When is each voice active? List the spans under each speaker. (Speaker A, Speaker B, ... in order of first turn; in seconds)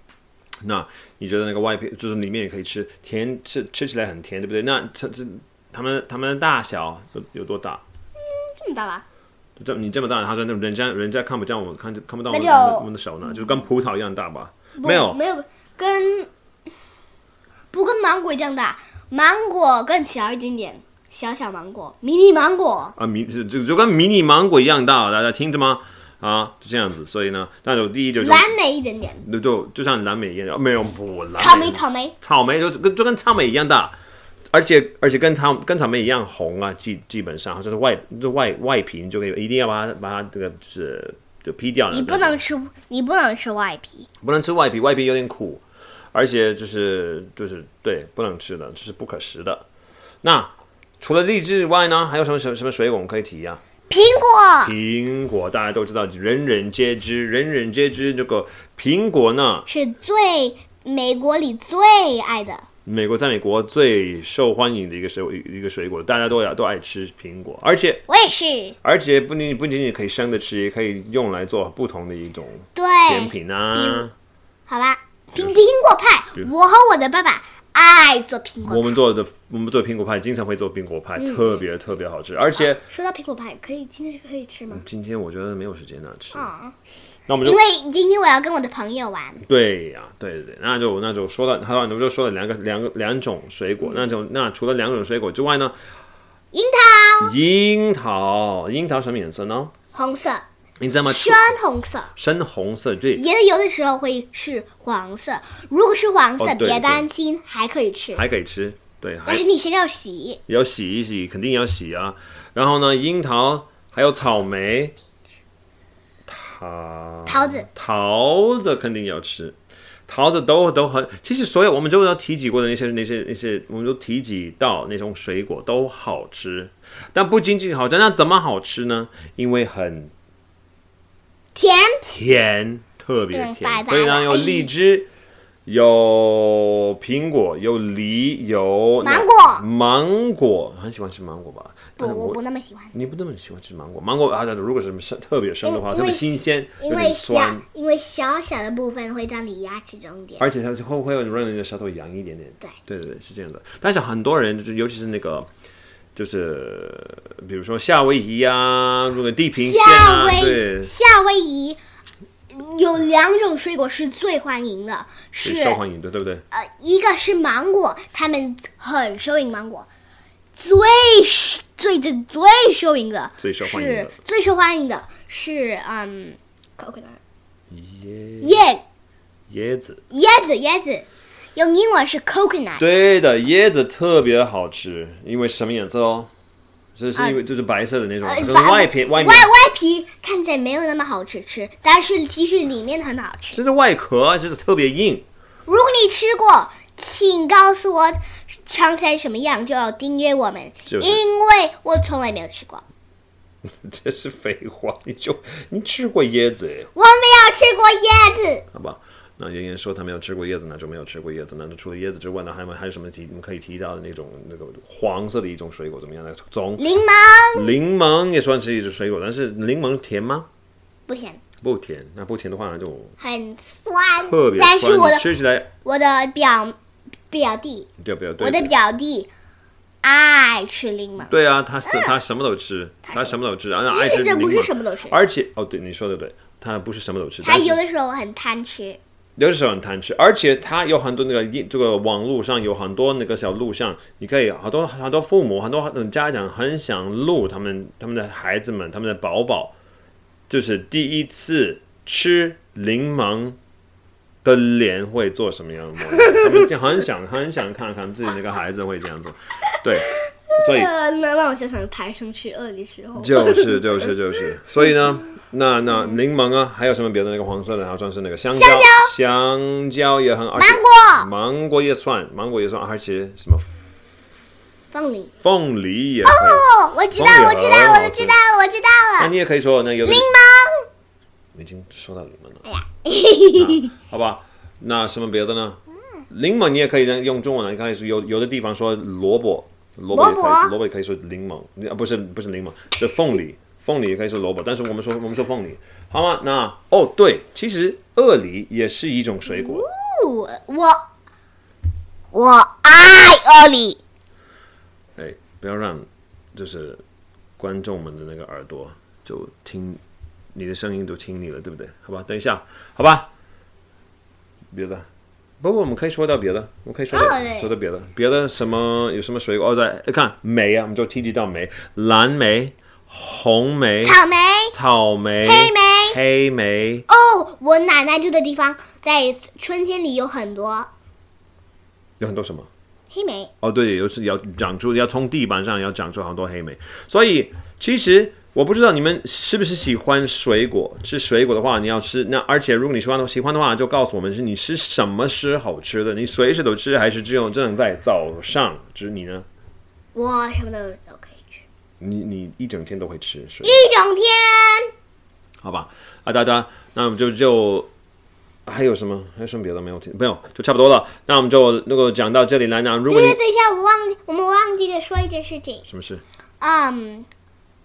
Speaker A: 0.6-7.8, 9.6-15.2, 23.0-28.5, 29.2-33.9, 34.5-42.4, 44.2-45.6, 46.1-49.6, 50.2-53.6, 54.6-59.7, 62.8-68.1, 68.8-74.1, 75.3-75.6, 78.7-82.8, 84.7-86.5, 87.3-87.6, 89.4-95.8, 97.2-99.7, 100.8-101.5, 102.1-103.2, 106.4-107.1, 108.1-109.4, 110.5-114.9, 116.3-119.6, 120.1-130.1, 132.0-135.1, 135.7-142.4, 142.9-147.6, 150.4-155.5, 156.1-160.9, 165.4-166.4, 173.4-174.1, 177.7-178.6, 179.5-180.0, 182.8-186.3, 187.0-189.5, 193.5-195.2, 200.9-201.2, 203.8-206.9, 208.7-216.8, 217.5-220.5, 221.6-223.2, 224.2-225.7, 228.0-228.7, 231.2-237.8, 239.4-249.7, 250.5-253.6, 254.4-260.9, 263.2-273.7, 275.4-276.6, 277.1-278.4, 279.2-280.3, 281.5-282.6, 283.6-285.8, 286.3-299.9, 305.1-307.0, 307.6-310.0, 310.5-313.3, 314.7-315.1, 315.6-324.2, 324.7-327.1, 332.2-332.7, 333.6-349.5, 352.0-353.8, 355.6-357.9, 358.6-363.4, 365.9-366.2
Speaker B: 8.2-9.0, 12.3-12.9, 14.8-16.3, 17.7-22.9, 28.2-29.2, 31.4-32.1, 41.9-44.1, 53.9-54.7, 59.7-62.6, 68.1-68.8, 72.8-74.1, 74.7-79.0, 81.2-81.6, 82.6-84.8, 86.3-86.8, 87.4-89.4, 96.5-97.3, 99.9-100.4, 101.1-102.1, 103.1-108.2, 109.2-110.4, 117.2-117.7, 131.5-132.0, 133.3-134.7, 139.0-139.6, 142.0-142.9, 145.6-150.4, 159.5-161.8, 162.5-165.8, 166.5-169.9, 170.5-177.2, 178.4-178.8, 180.1-182.8, 187.2-187.4, 188.2-193.6, 195.7-202.8, 206.9-208.7, 216.8-217.7, 221.1-221.4, 223.2-225.2, 225.8-226.7, 227.3-227.9, 228.4-229.3, 230.0-231.3, 231.8-232.1, 233.1-235.2, 237.4-239.0, 256.1-256.7, 260.6-264.1, 268.5-269.1, 270.6-271.3, 274.9-275.3, 276.2-279.3, 280.0-280.9, 282.6-283.9, 290.1-290.8, 299.5-301.1, 302.3-304.0, 317.1-317.7, 324.0-324.7, 325.4-326.2, 327.1-330.9, 333.1-333.5, 350.1-351.6, 353.6-354.9, 363.1-365.9, 366.6-367.3